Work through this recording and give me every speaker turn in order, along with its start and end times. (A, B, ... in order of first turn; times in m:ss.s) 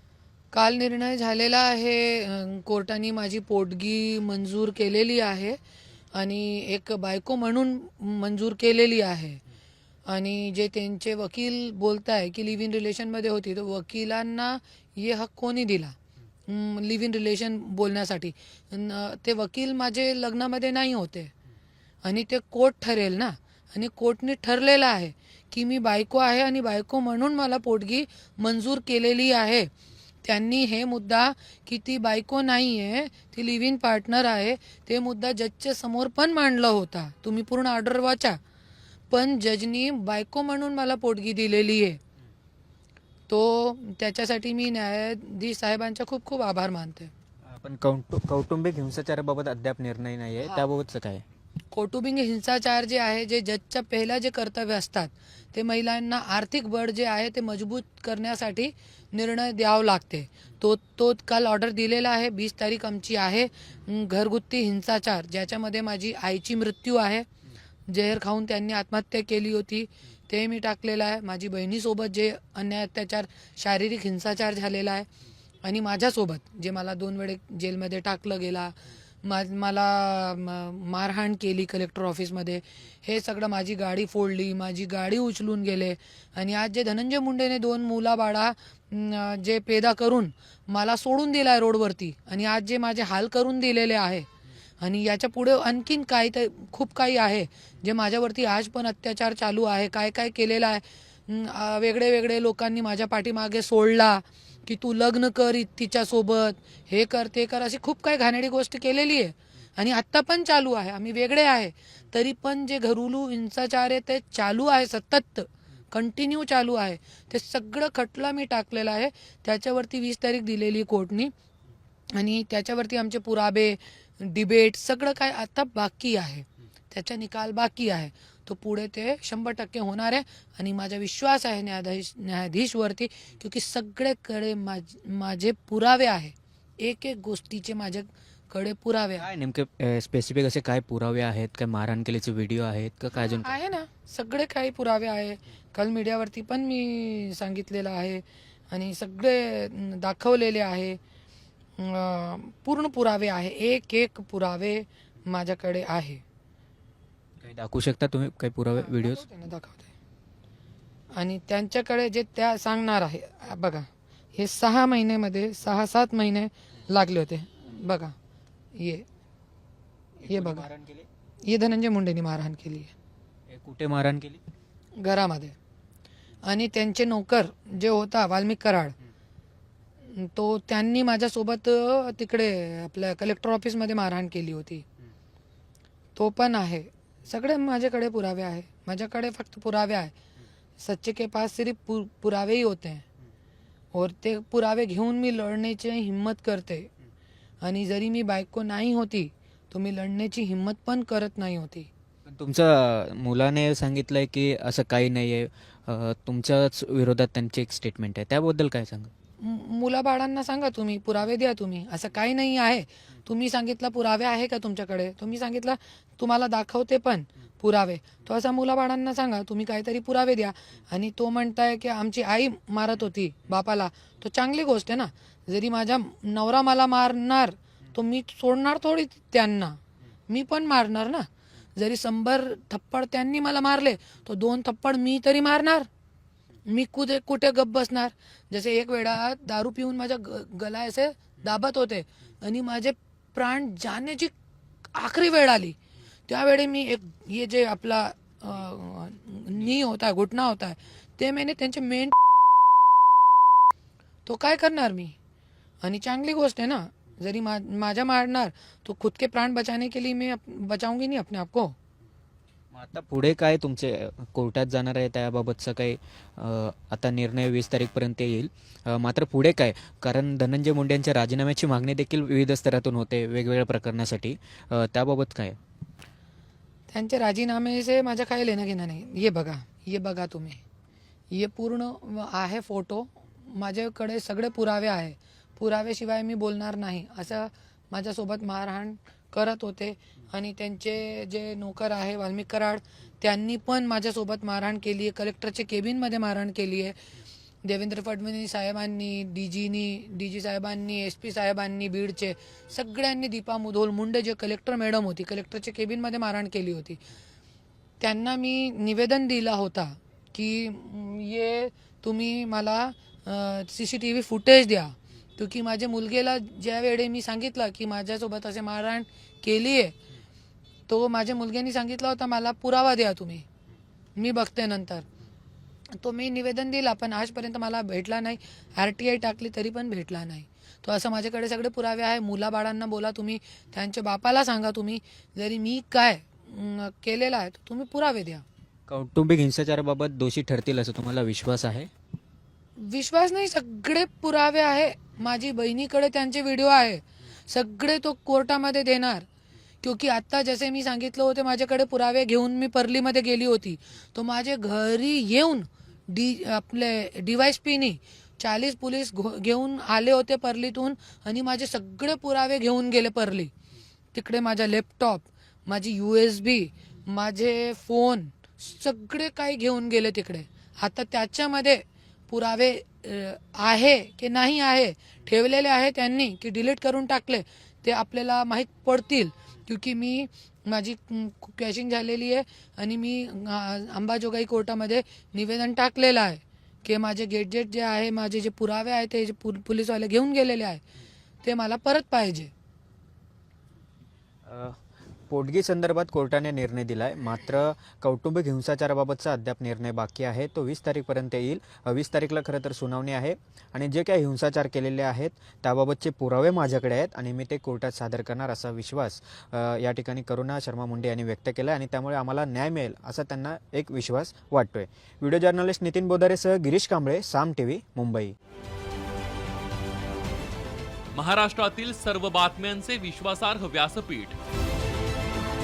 0:00.5-0:05.6 A
0:06.1-0:09.4 A
0:10.1-0:15.9 A
0:16.5-0:21.3 A
0:22.0-0:29.7 A
0:30.2-0:38.4 A
0:39.1-0:42.0 A
0:43.3-0:47.1 A
0:47.5-0:51.2 B
0:51.7-1:07.3 A
1:07.9-1:15.1 A
1:15.6-1:34.3 A
1:34.8-2:01.3 A
2:02.2-2:19.2 A
2:19.2-2:23.5 B
2:23.1-2:31.0 A
2:31.8-2:36.2 A
2:37.4-2:39.2 B
2:38.8-2:39.9 A
2:41.2-2:48.1 A
2:48.8-2:49.0 A
2:50.2-2:51.1 B
2:50.3-2:50.6 A
2:51.4-2:52.9 A
2:53.5-2:54.4 B
2:55.0-2:55.5 A
2:56.4-2:58.9 A
3:00.1-3:04.8 A
3:06.2-3:10.1 A
3:10.8-3:13.0 A
3:13.9-3:16.9 A
3:17.6-3:21.9 A
3:22.3-3:29.1 B
3:29.4-3:55.9 A
3:56.7-4:04.3 A
4:04.9-4:05.8 A
4:06.3-4:12.2 A
4:14.2-4:15.1 A
4:15.8-4:21.7 A
4:22.7-4:35.6 B
4:36.9-4:40.6 A
4:41.3-4:57.0 A
4:57.6-5:07.0 A
5:08.0-5:20.0 A
5:20.9-5:23.4 A
5:24.2-5:25.0 A
5:26.0-5:38.4 A
5:38.9-5:41.9 B
5:42.8-5:49.2 A
5:49.8-6:03.5 A
6:04.1-6:30.8 A
6:31.4-6:32.5 A
6:34.4-6:34.8 B
6:35.3-6:58.3 B
7:01.1-7:04.4 C